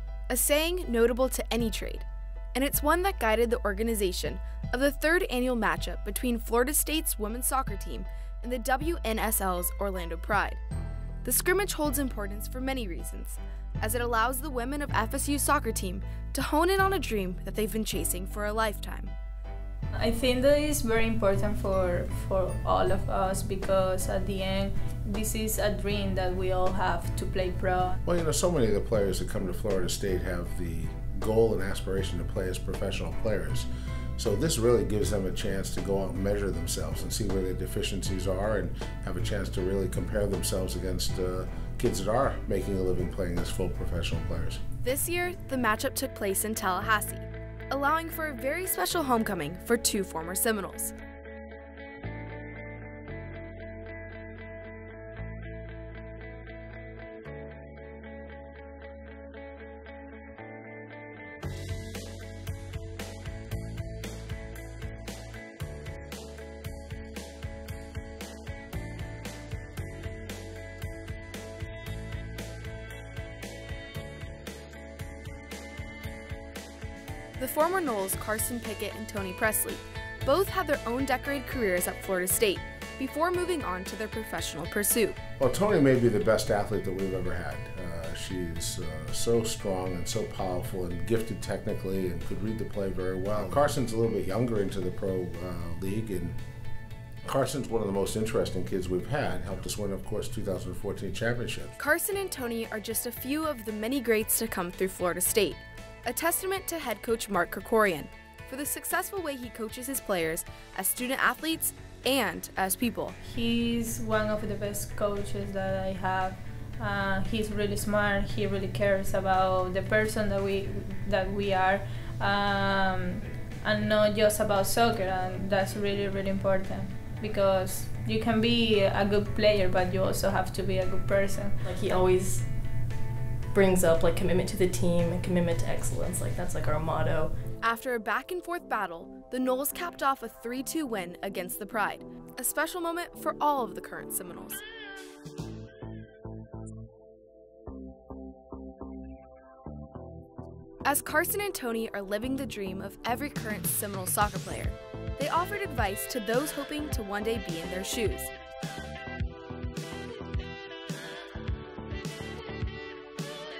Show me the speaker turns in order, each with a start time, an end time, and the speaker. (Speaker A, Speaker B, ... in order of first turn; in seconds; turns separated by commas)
Speaker A: 0.3-10.6, Speaker A: 11.2-19.1, Speaker B: 19.9-27.9, Speaker C: 28.0-44.6, Speaker A: 44.8-50.9, Speaker A: 77.4-85.2, Speaker C: 85.4-96.4, Speaker C: 97.2-101.8, Speaker A: 101.8-113.2, Speaker B: 113.2-131.6, Speaker D: 131.6-132.4, Speaker D: 133.5-137.3, Speaker A: 137.6-144.6, Speaker A: 150.8-158.3